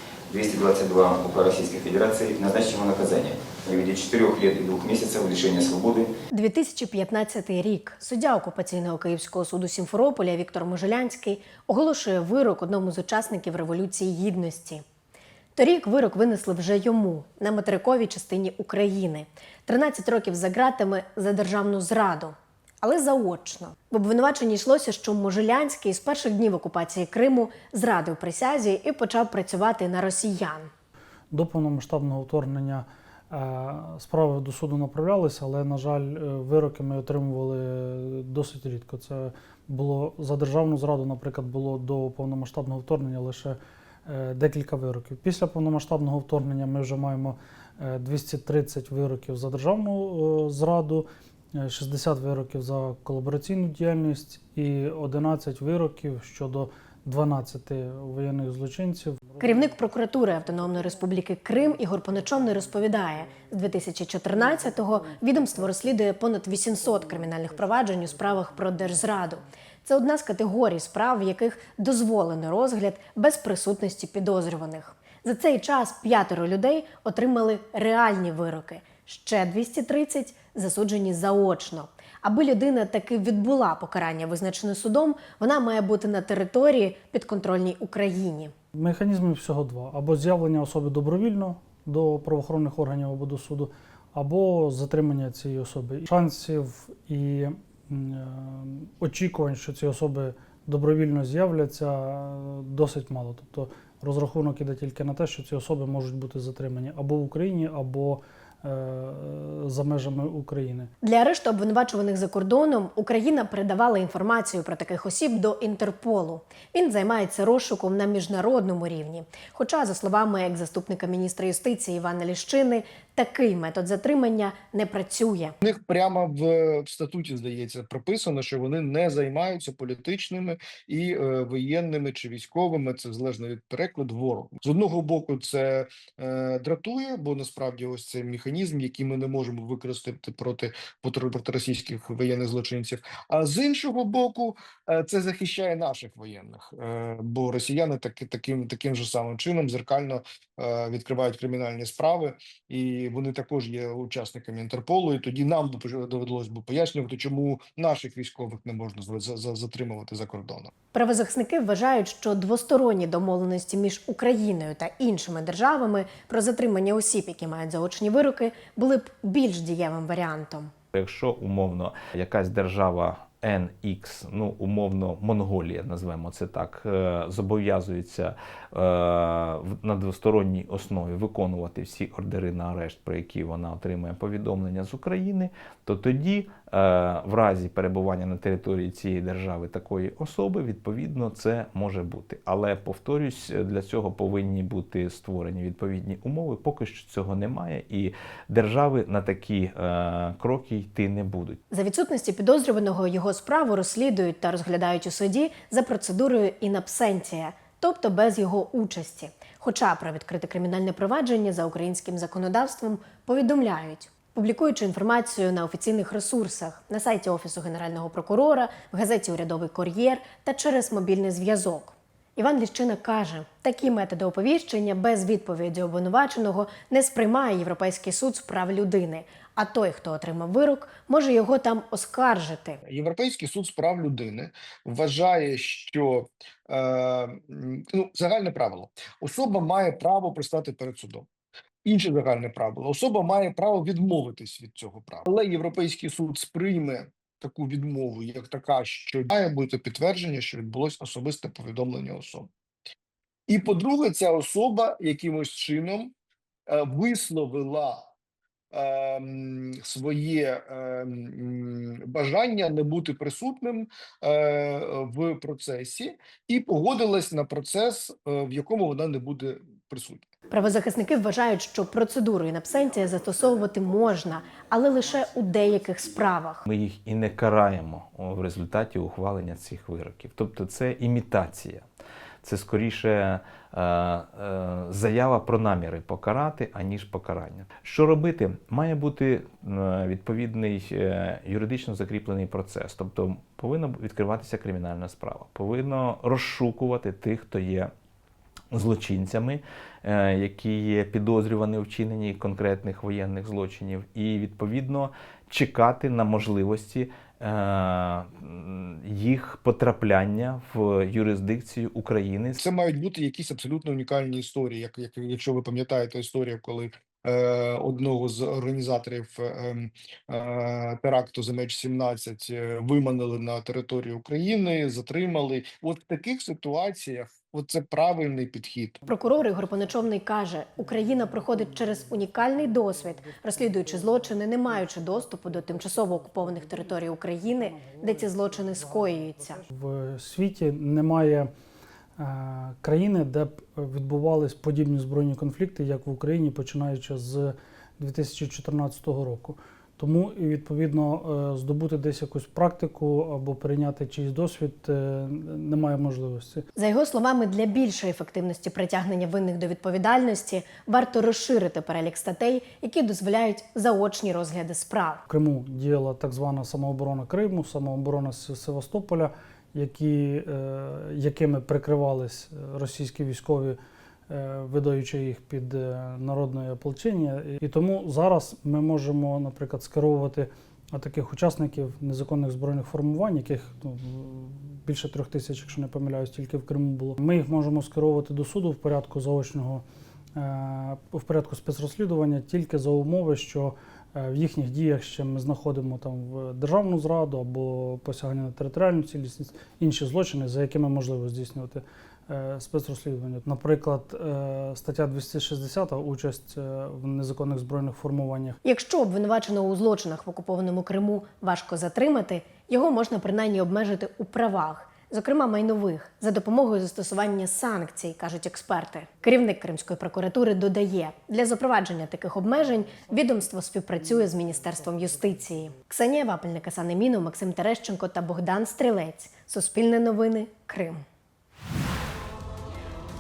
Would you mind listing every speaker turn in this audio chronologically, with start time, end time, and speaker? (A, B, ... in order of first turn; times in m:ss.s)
0:00.3-0:06.1 A
0:06.3-0:14.8 B
0:15.5-0:30.7 B
0:31.3-0:59.2 C
0:59.4-1:28.5 B
1:28.8-1:50.9 C
1:51.0-2:05.6 B
2:05.6-2:40.7 D
2:40.9-2:50.7 B
2:50.9-3:21.6 E
3:21.7-3:52.8 B
3:52.8-4:01.3 D
4:01.8-4:12.5 D
4:13.5-4:16.1 D
4:16.7-4:18.1 D
4:18.7-4:30.2 D
4:30.5-4:36.6 B
4:36.7-4:41.9 E
4:42.4-4:57.9 E
4:58.7-5:12.6 E
5:12.6-5:29.0 D
5:29.1-5:39.6 B
5:39.7-5:41.5 C
5:42.2-5:56.7 C
5:56.8-6:05.2 B
6:05.3-6:13.8 C
6:14.3-6:29.8 C
6:30.4-6:48.6 C
6:48.6-7:11.0 B